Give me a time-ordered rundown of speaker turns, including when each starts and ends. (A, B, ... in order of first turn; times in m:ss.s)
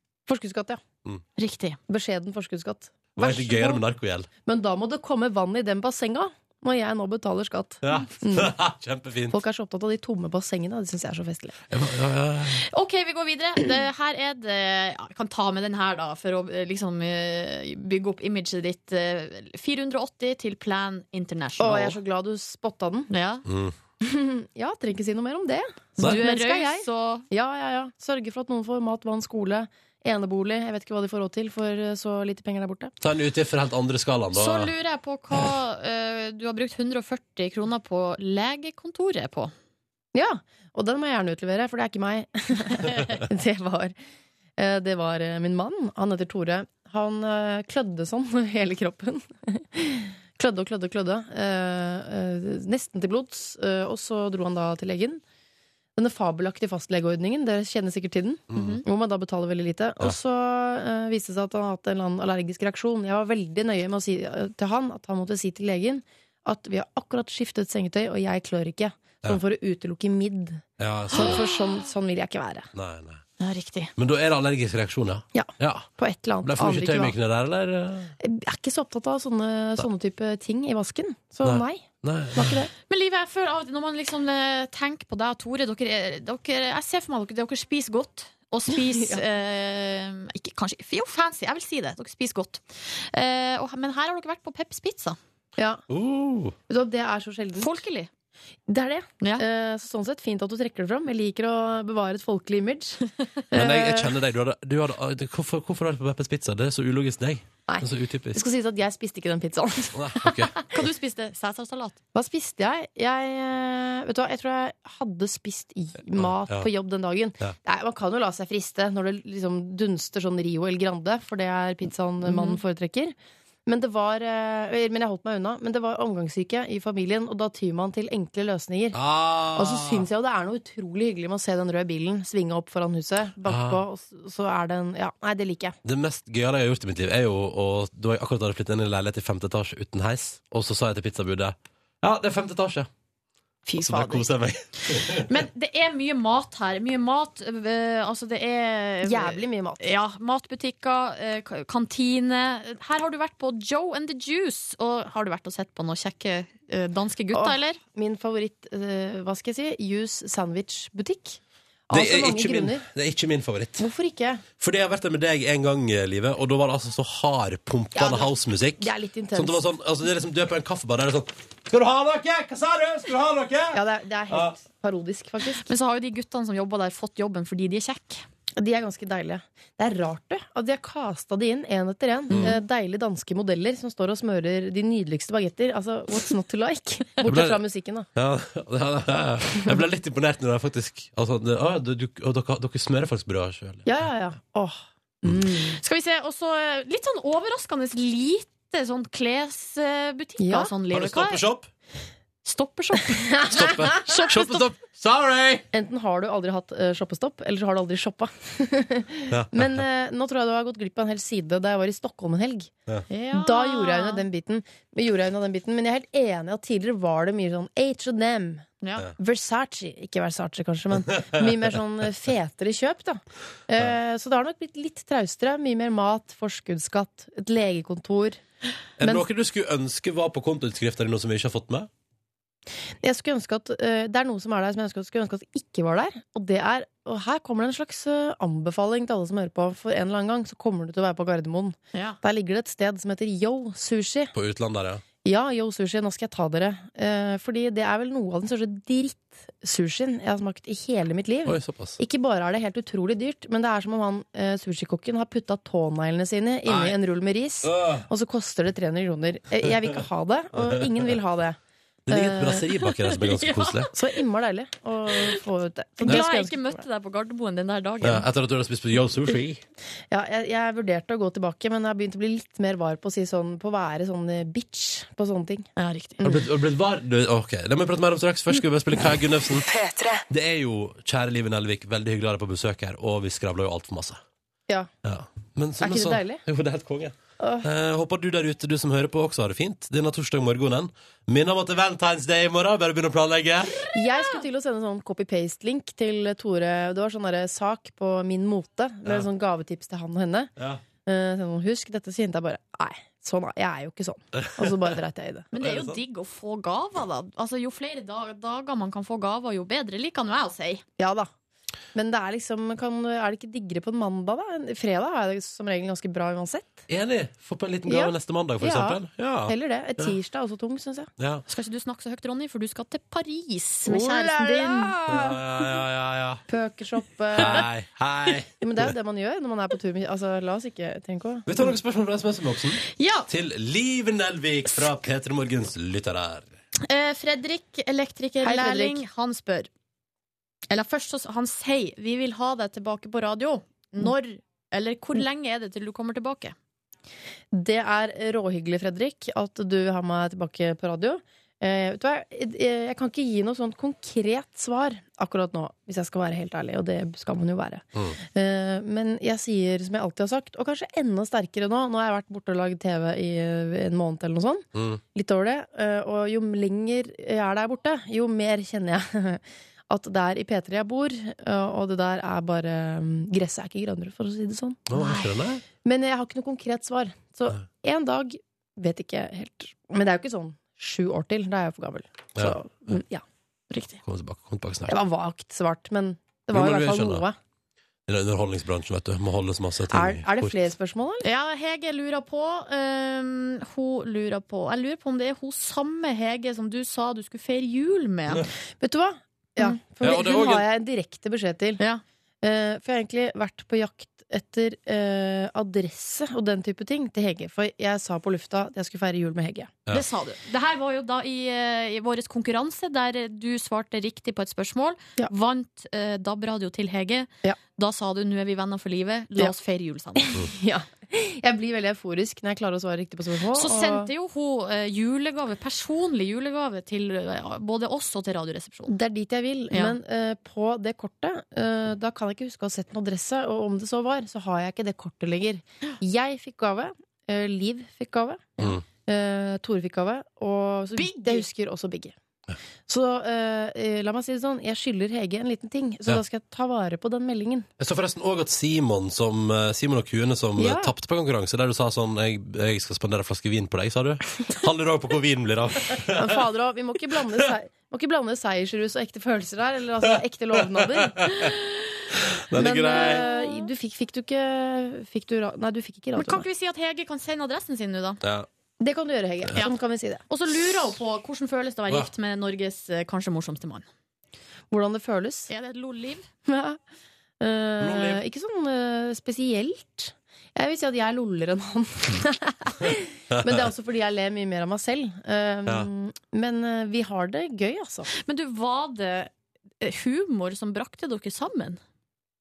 0:00.3-0:00.8 A
0:01.4-0:01.8 B
0:01.9-0:03.8 A
0:03.2-0:04.3 C
0:04.4-0:08.5 A
0:07.8-0:09.4 C
0:09.3-0:11.6 A
0:11.7-0:12.6 C
0:12.7-0:22.0 B
0:21.6-0:23.1 A
0:23.1-0:23.4 B
0:23.4-0:23.7 C
0:24.0-0:32.9 A
0:26.0-0:27.2 B
0:33.0-0:34.7 C
0:34.3-0:39.5 B
0:40.1-0:43.9 A
0:44.6-0:55.2 A
0:56.0-1:12.7 A
0:58.5-0:58.8 C
0:58.5-0:58.8 B
1:10.8-1:11.4 C
1:11.1-1:11.4 B
1:12.7-1:13.2 C
1:13.4-1:13.9 B
1:14.0-1:15.9 C
1:15.3-1:17.1 A
1:16.4-1:18.1 C
1:18.2-1:22.7 A
1:21.4-1:22.6 C
1:22.9-1:35.2 B
1:28.7-1:29.2 A
1:35.6-1:35.8 A
1:35.9-1:36.6 C
1:36.7-1:37.8 A
1:37.6-1:38.1 B
1:38.7-1:44.2 A
1:43.5-1:48.4 C
1:47.7-1:50.6 A
1:49.9-1:50.5 C
1:50.7-1:52.0 B
1:52.1-2:09.0 A
1:56.2-1:56.7 C
2:02.3-2:02.6 B
2:08.9-2:10.0 C
2:09.5-2:15.8 A
2:13.4-2:13.8 C
2:15.8-2:22.9 C
2:23.6-2:24.2 A
2:23.8-2:25.3 C
2:24.9-2:37.8 B
2:29.0-2:29.8 A
2:37.3-2:42.8 A
2:41.9-2:43.8 C
2:43.8-2:44.4 A
2:44.6-2:53.8 C
2:47.9-2:49.6 A
2:53.7-2:55.7 A
2:55.6-2:58.2 B
2:58.6-3:08.1 A
3:02.3-3:02.6 C
3:07.2-3:07.6 C
3:08.1-3:13.9 C
3:13.8-3:15.8 A
3:15.8-3:21.4 B
3:20.4-3:20.7 A
3:20.9-3:21.7 C
3:22.4-3:24.6 B
3:23.1-3:24.0 A
3:23.5-3:25.6 C
3:25.7-3:32.7 A
3:29.3-3:29.8 C
3:33.1-3:34.2 B
3:33.3-3:38.6 A
3:38.8-3:39.1 B
3:39.2-3:48.4 A
3:49.0-3:51.9 C
3:49.0-3:49.3 A
3:53.0-4:04.3 A
4:01.9-4:02.2 B
4:04.3-4:05.0 C
4:05.2-4:21.6 A
4:11.4-4:12.0 C
4:16.6-4:17.0 C
4:17.6-4:18.0 C
4:19.7-4:19.9 C
4:20.6-4:21.1 C
4:22.1-4:23.9 C
4:22.1-4:22.7 A
4:23.0-4:23.9 B
4:23.9-4:26.8 A
4:26.0-4:28.2 B
4:28.0-4:29.6 C
4:30.1-4:35.7 A
4:35.8-4:36.2 B
4:36.2-4:39.6 C
4:40.3-4:44.2 C
4:45.0-4:53.8 C
4:45.8-4:46.4 A
4:47.4-4:47.7 A
4:53.9-5:00.5 A
5:01.0-5:05.5 A
5:04.4-5:04.7 C
5:05.5-5:10.8 B
5:05.6-5:06.0 C
5:11.0-5:11.3 A
5:11.9-5:16.8 A
5:16.9-5:20.1 C
5:17.9-5:21.1 A
5:21.2-5:21.4 C
5:21.5-5:25.2 B
5:23.9-5:25.4 A
5:25.1-5:26.4 C
5:26.5-5:27.7 A
5:27.4-5:28.8 C
5:28.6-5:31.7 A
5:31.5-5:36.5 C
5:32.9-5:33.3 B
5:36.8-5:39.7 B
5:38.4-5:39.0 A
5:40.7-5:46.6 B
5:47.5-6:14.9 A
6:04.7-6:05.0 C
6:14.9-6:15.6 C
6:15.0-6:15.3 B
6:15.7-6:23.2 A
6:22.4-6:23.0 C
6:23.7-6:24.0 B
6:24.0-6:24.9 C
6:24.9-6:27.4 A
6:26.5-6:27.2 C
6:28.1-6:30.5 C
6:29.9-6:31.2 A
6:31.2-6:38.4 B
6:38.8-6:41.8 A
6:40.0-6:40.6 C
6:42.4-6:49.8 A
6:49.9-7:00.3 B
7:00.2-7:04.1 A
7:03.5-7:08.9 B
7:08.9-7:22.1 A
7:09.7-7:10.0 B
7:20.9-7:21.5 B
7:22.9-7:27.7 A
7:27.8-7:36.3 C
7:30.6-7:30.9 A
7:36.1-7:41.2 A
7:42.4-7:43.2 C
7:42.5-7:46.4 A
7:42.6-7:43.7 B
7:46.2-7:48.2 B
7:48.2-7:48.5 C
7:48.8-7:50.2 A
7:50.3-7:53.9 B
7:54.7-7:55.5 A
7:55.5-7:56.3 B
7:56.4-7:56.8 A
7:57.4-8:08.1 A
7:57.8-7:58.2 C
8:03.3-8:03.6 C
8:08.1-8:11.8 B